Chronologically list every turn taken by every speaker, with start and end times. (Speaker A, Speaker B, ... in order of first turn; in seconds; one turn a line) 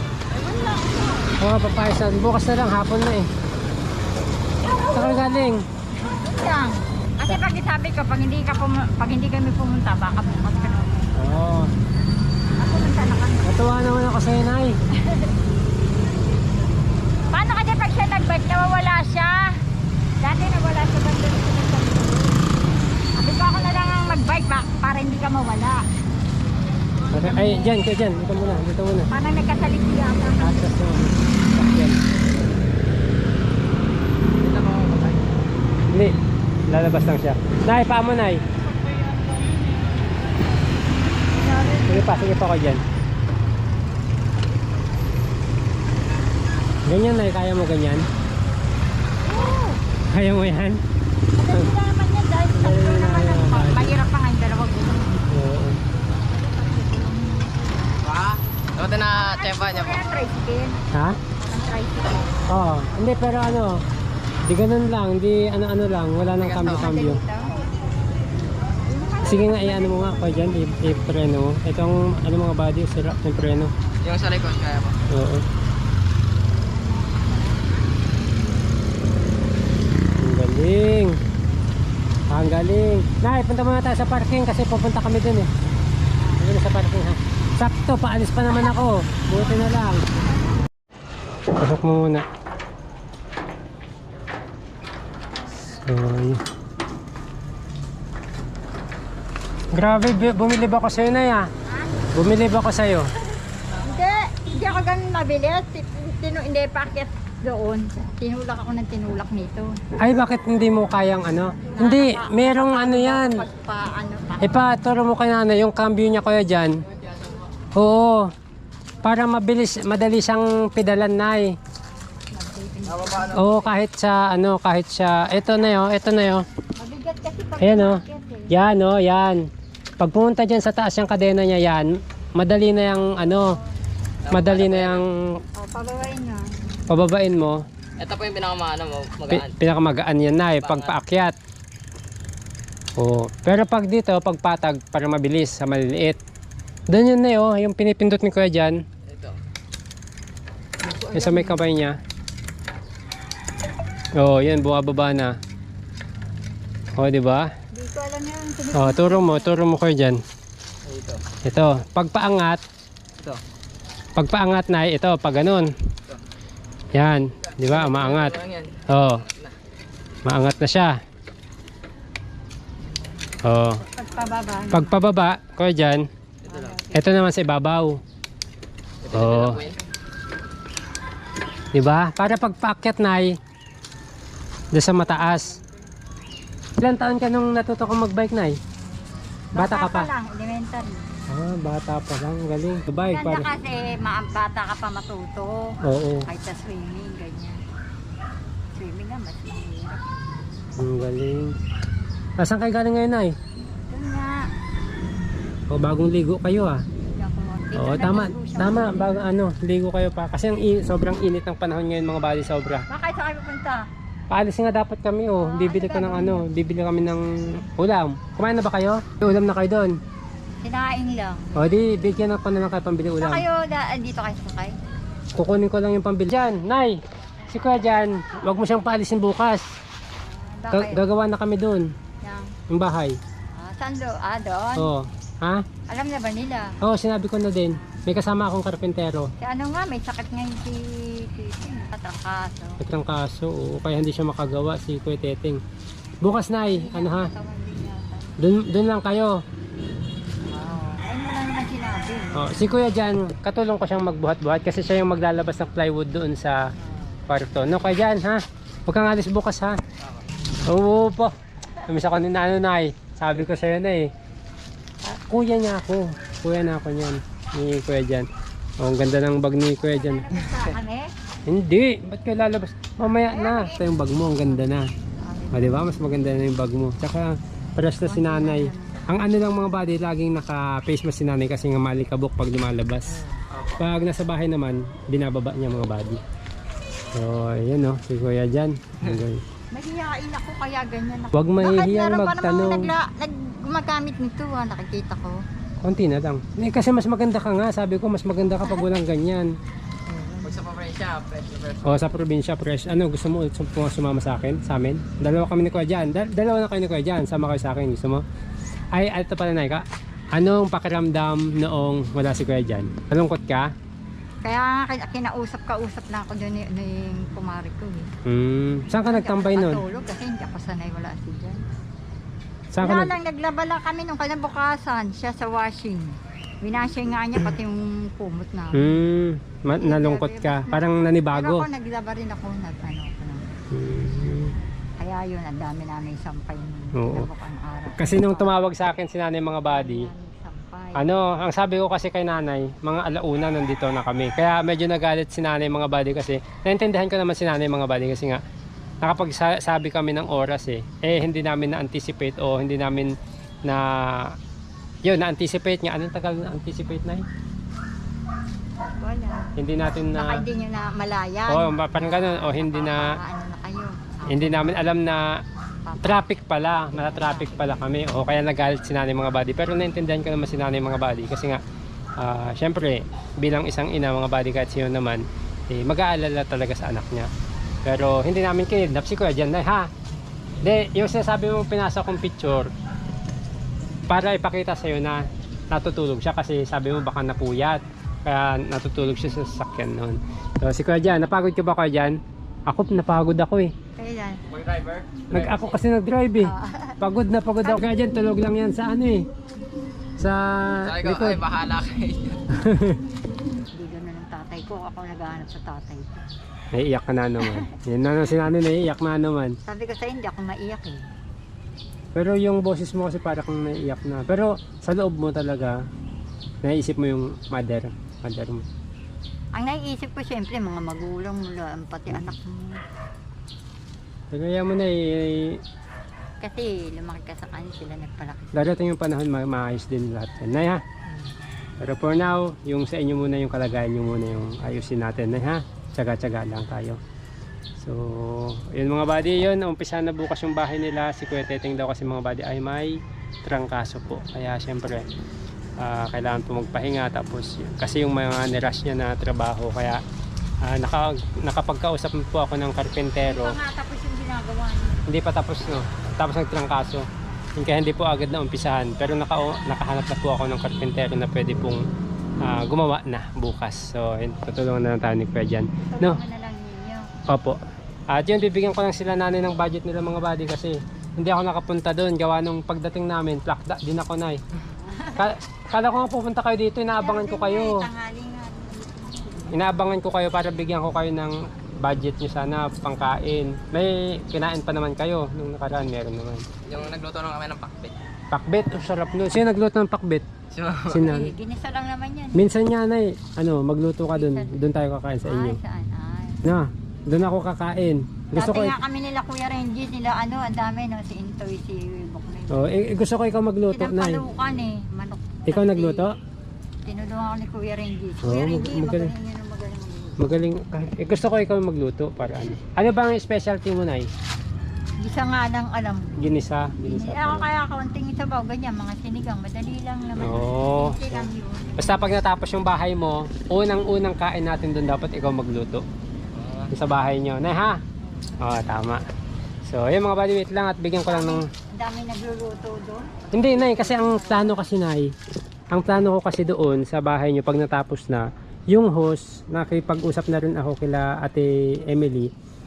Speaker A: 0.4-1.3
Speaker B: 1.4-3.3
Speaker B: 4.9-5.6
Speaker A: 6.1-11.1
Speaker B: 11.2-11.7
Speaker A: 12.6-13.5
Speaker B: 13.4-14.8
Speaker A: 15.0-15.3
Speaker A: 17.3-19.6
Speaker A: 20.2-22.5
Speaker A: 23.2-25.8
Speaker B: 27.1-29.1
Speaker A: 27.2-27.6
Speaker A: 29.1-30.8
Speaker B: 30.4-32.0
Speaker C: 34.4-35.4
Speaker B: 35.9-36.1
Speaker B: 36.7-38.4
Speaker A: 41.5-42.3
Speaker B: 41.8-42.8
Speaker B: 46.9-48.1
Speaker A: 49.2-49.8
Speaker B: 50.1-50.8
Speaker A: 51.4-55.3
Speaker B: 52.5-54.0
Speaker B: 55.3-55.8
Speaker A: 56.2-58.0
Speaker C: 58.0-60.1
Speaker A: 59.1-60.8
Speaker B: 60.9-61.2
Speaker A: 61.4-62.4
Speaker B: 62.5-63.8
Speaker B: 64.5-67.2
Speaker C: 66.4-66.9
Speaker A: 66.4-67.6
Speaker A: 68.9-70.6
Speaker B: 69.2-73.7
Speaker C: 74.0-75.0
Speaker B: 75.1-75.5
Speaker B: 80.2-81.2
Speaker B: 82.3-85.5
Speaker B: 86.4-90.0
Speaker B: 91.6-92.2
Speaker B: 95.6-96.4
Speaker B: 99.7-101.5
Speaker B: 102.1-103.1
Speaker A: 103.8-109.8
Speaker B: 110.0-113.4
Speaker A: 111.7-114.6
Speaker B: 114.4-116.7
Speaker B: 117.8-118.3
Speaker B: 119.0-121.5
Speaker A: 122.3-123.4
Speaker C: 122.9-123.6
Speaker B: 123.3-126.5
Speaker A: 126.8-128.5
Speaker B: 127.6-129.4
Speaker B: 130.0-133.6
Speaker C: 134.2-135.0
Speaker B: 134.3-135.1
Speaker A: 135.6-136.5
Speaker B: 136.9-137.6
Speaker C: 138.0-139.5
Speaker B: 139.3-141.3
Speaker C: 140.6-140.9
Speaker B: 143.0-146.2
Speaker B: 146.9-148.8
Speaker C: 149.1-149.4
Speaker A: 150.8-151.6
Speaker B: 151.1-152.0
Speaker B: 154.2-155.3
Speaker B: 157.0-157.5
Speaker A: 157.7-159.6
Speaker B: 158.7-160.2
Speaker C: 160.8-161.2
Speaker B: 161.4-162.6
Speaker B: 164.2-165.7
Speaker B: 166.9-168.3
Speaker C: 167.4-169.6
Speaker B: 168.9-169.2
Speaker B: 170.2-170.9
Speaker B: 173.4-173.8
Speaker A: 173.8-175.0
Speaker B: 174.7-176.1
Speaker C: 176.4-176.8
Speaker A: 176.5-177.2
Speaker B: 176.9-178.0
Speaker C: 179.0-179.8
Speaker B: 179.1-179.6
Speaker B: 181.7-183.3
Speaker B: 184.7-185.6
Speaker A: 184.8-185.7
Speaker B: 186.8-188.6
Speaker A: 189.6-190.9
Speaker B: 189.6-190.1
Speaker B: 191.3-193.5
Speaker A: 193.0-195.6
Speaker B: 195.8-196.3
Speaker A: 196.3-197.6
Speaker A: 198.8-200.0
Speaker B: 200.8-201.5
Speaker B: 202.4-203.3
Speaker A: 203.8-204.4
Speaker B: 205.7-206.8
Speaker A: 207.2-209.2
Speaker B: 207.8-212.8
Speaker A: 212.9-213.8
Speaker B: 214.3-219.9
Speaker A: 215.4-216.5
Speaker A: 220.6-221.6
Speaker B: 221.6-223.4
Speaker A: 223.2-224.8
Speaker B: 225.4-227.0
Speaker B: 227.5-229.7
Speaker A: 230.2-231.1
Speaker B: 230.7-231.9
Speaker A: 232.2-232.5
Speaker B: 232.7-233.2
Speaker A: 233.6-234.9
Speaker B: 234.8-235.6
Speaker A: 235.9-236.8
Speaker B: 236.8-239.3
Speaker A: 239.4-242.8
Speaker B: 242.8-245.6
Speaker B: 246.2-247.3
Speaker A: 246.3-248.3
Speaker B: 248.4-249.3
Speaker A: 250.5-252.4
Speaker B: 252.3-256.6
Speaker B: 257.3-259.8
Speaker C: 260.0-260.2
Speaker B: 260.7-261.3
Speaker B: 261.9-264.1
Speaker B: 265.0-268.3
Speaker B: 268.8-270.4
Speaker A: 269.8-271.1
Speaker B: 271.5-274.9
Speaker A: 273.2-274.6
Speaker A: 275.2-275.9
Speaker B: 275.5-286.2
Speaker A: 278.0-279.0
Speaker B: 287.1-289.4
Speaker A: 289.7-295.4
Speaker B: 291.3-292.9
Speaker B: 295.8-299.5
Speaker A: 298.6-298.9
Speaker A: 300.1-300.5
Speaker C: 300.4-302.1
Speaker B: 301.9-308.2
Speaker B: 308.9-309.9
Speaker B: 310.4-313.7
Speaker A: 314.4-318.1
Speaker B: 318.3-319.8
Speaker A: 319.0-321.7
Speaker B: 322.7-323.1
Speaker A: 322.8-329.0
Speaker B: 328.7-331.7
Speaker A: 329.7-333.6
Speaker B: 333.7-334.5
Speaker A: 335.0-338.6
Speaker B: 336.9-337.3
Speaker B: 338.0-340.1
Speaker A: 339.7-341.1
Speaker B: 341.0-348.4
Speaker B: 349.0-353.1
Speaker B: 353.7-354.3
Speaker B: 355.1-357.2
Speaker A: 358.8-359.5
Speaker B: 359.6-360.4
Speaker A: 360.1-364.8
Speaker B: 361.5-363.1
Speaker B: 364.3-365.2
Speaker A: 365.9-367.7
Speaker B: 366.0-371.6
Speaker B: 372.2-377.3
Speaker B: 377.9-379.9
Speaker B: 380.6-382.7
Speaker B: 384.1-385.2
Speaker B: 385.7-392.2
Speaker B: 392.7-393.7
Speaker A: 394.0-394.4
Speaker C: 394.5-395.7
Speaker B: 395.3-399.2
Speaker A: 396.4-397.0
Speaker A: 397.6-397.9
Speaker B: 400.2-401.4
Speaker C: 400.9-402.4
Speaker B: 402.5-403.0
Speaker A: 403.8-406.3
Speaker B: 406.7-409.6
Speaker A: 409.7-411.1
Speaker B: 412.1-415.8
Speaker B: 416.6-418.6
Speaker A: 419.6-422.8
Speaker B: 424.3-425.6
Speaker A: 426.4-428.8
Speaker B: 428.6-430.8
Speaker B: 431.8-437.0
Speaker B: 437.8-442.9
Speaker B: 443.4-445.1
Speaker B: 445.8-450.0
Speaker B: 450.6-453.6
Speaker A: 453.2-455.0
Speaker B: 455.1-457.1
Speaker B: 457.6-461.8
Speaker B: 462.4-466.2
Speaker A: 465.8-467.1
Speaker B: 467.3-467.6
Speaker B: 468.1-474.4
Speaker A: 474.8-475.3
Speaker B: 475.1-477.8
Speaker A: 476.9-479.6
Speaker B: 479.5-486.5
Speaker C: 486.6-488.0
Speaker B: 488.3-490.3
Speaker C: 490.5-491.1
Speaker B: 490.9-491.3
Speaker A: 491.0-492.5
Speaker B: 492.3-495.6
Speaker A: 494.1-494.6
Speaker A: 495.2-496.4
Speaker B: 496.4-498.8
Speaker A: 498.4-503.0
Speaker B: 502.5-504.3
Speaker A: 503.7-506.1
Speaker B: 505.5-506.1
Speaker A: 506.9-510.3
Speaker B: 508.2-509.1
Speaker B: 510.2-514.1
Speaker A: 515.0-516.1
Speaker B: 516.2-517.5
Speaker A: 516.8-522.0
Speaker B: 520.2-525.9
Speaker C: 526.3-526.7
Speaker B: 526.7-527.8
Speaker B: 528.4-529.0
Speaker B: 529.7-531.5
Speaker A: 531.0-534.7
Speaker B: 533.3-535.1
Speaker B: 535.7-542.3